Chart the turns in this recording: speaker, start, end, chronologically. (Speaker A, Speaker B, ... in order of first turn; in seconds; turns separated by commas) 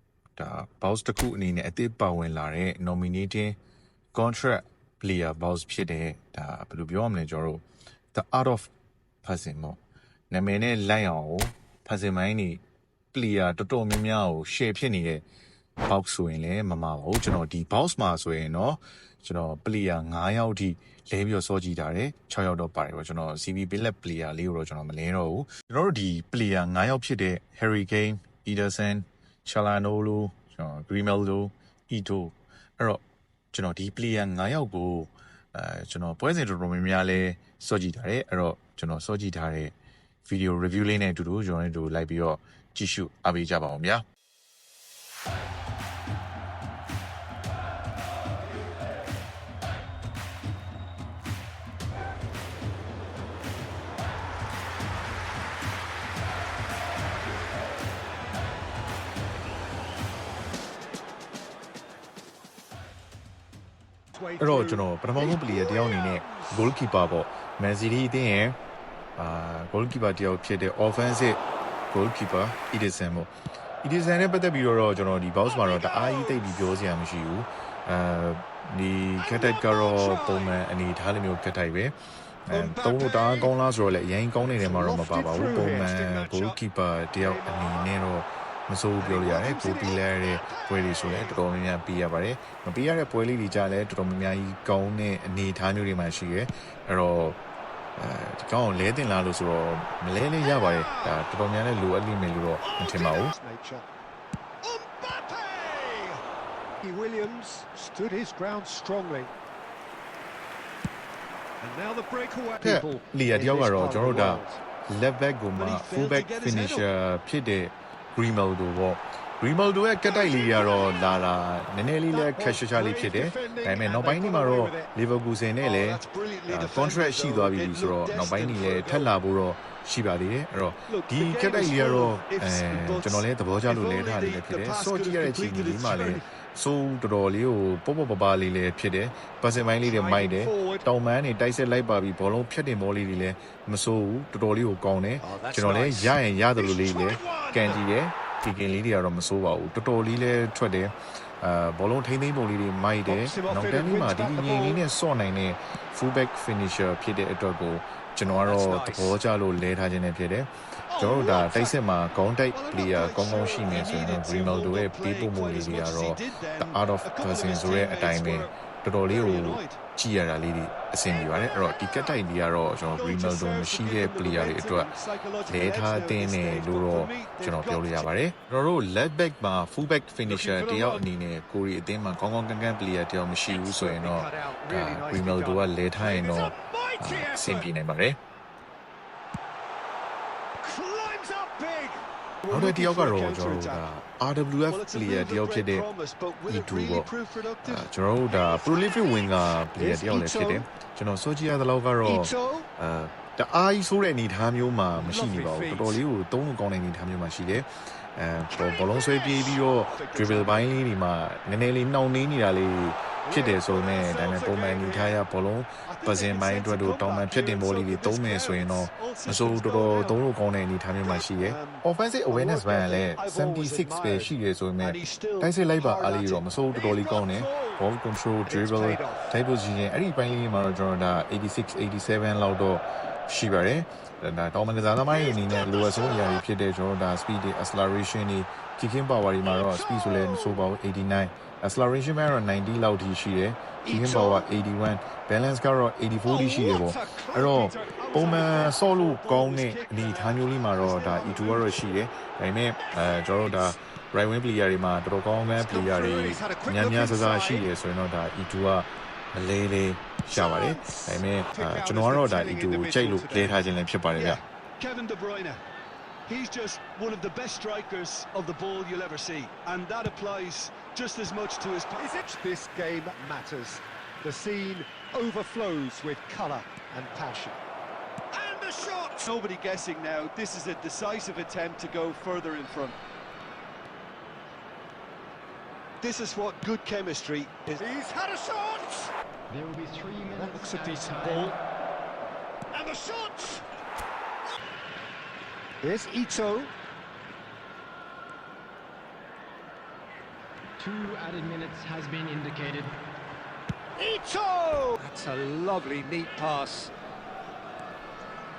Speaker A: 0.4-3.5, Speaker A: 4.1-8.7, Speaker A: 9.2-9.8, Speaker A: 10.3-12.6, Speaker A: 13.1-15.2, Speaker A: 15.8-39.7, Speaker A: 40.2-44.0, Speaker B: 64.1-66.6, Speaker A: 64.4-68.6, Speaker A: 69.2-73.3, Speaker A: 73.8-82.0, Speaker B: 75.6-76.5, Speaker B: 79.3-80.5, Speaker A: 82.5-97.4, Speaker B: 82.5-83.5, Speaker B: 84.6-86.5, Speaker B: 87.2-87.9, Speaker B: 89.0-91.4, Speaker A: 98.0-103.3, Speaker B: 100.4-101.2, Speaker B: 102.6-103.8, Speaker B: 104.6-106.2, Speaker B: 106.8-109.3, Speaker B: 111.6-114.6, Speaker A: 112.6-174.9, Speaker C: 115.5-116.9, Speaker B: 120.0-121.2, Speaker B: 122.1-124.9, Speaker C: 125.6-129.1, Speaker C: 130.9-136.2, Speaker B: 139.8-140.8, Speaker B: 145.2-147.8, Speaker B: 153.1-154.8, Speaker B: 158.2-159.2, Speaker C: 161.0-161.7, Speaker B: 161.0-161.6, Speaker C: 162.5-168.5, Speaker C: 169.1-169.8, Speaker B: 171.3-172.1, Speaker C: 172.9-178.1, Speaker A: 175.4-188.2, Speaker C: 180.3-181.0, Speaker B: 180.3-180.9, Speaker B: 183.5-187.7, Speaker B: 190.6-192.0, Speaker C: 192.4-193.8, Speaker A: 192.5-195.9, Speaker C: 194.7-197.9, Speaker A: 196.5-197.1, Speaker A: 197.6-264.4, Speaker B: 198.4-199.0, Speaker B: 199.8-200.6, Speaker B: 202.0-202.7, Speaker B: 205.0-205.8, Speaker C: 205.0-205.9, Speaker C: 208.6-210.7, Speaker C: 213.3-215.2, Speaker C: 216.0-220.2, Speaker C: 221.1-221.8, Speaker C: 222.3-226.4, Speaker B: 226.7-227.8, Speaker B: 228.4-229.3, Speaker B: 235.1-236.0, Speaker C: 235.2-236.3, Speaker B: 239.4-240.6, Speaker B: 243.8-244.5, Speaker B: 246.2-248.9, Speaker C: 247.6-250.9, Speaker B: 249.8-251.6, Speaker B: 252.9-253.7, Speaker B: 255.6-257.7, Speaker B: 260.3-263.6, Speaker C: 264.3-265.6, Speaker C: 266.3-272.1, Speaker B: 271.9-277.6, Speaker B: 278.3-279.2, Speaker C: 279.1-282.9, Speaker C: 286.0-287.8, Speaker B: 287.7-289.1, Speaker D: 289.5-291.6, Speaker B: 290.2-291.5, Speaker B: 292.7-293.6, Speaker B: 295.8-296.7, Speaker D: 300.8-303.0, Speaker B: 304.0-306.9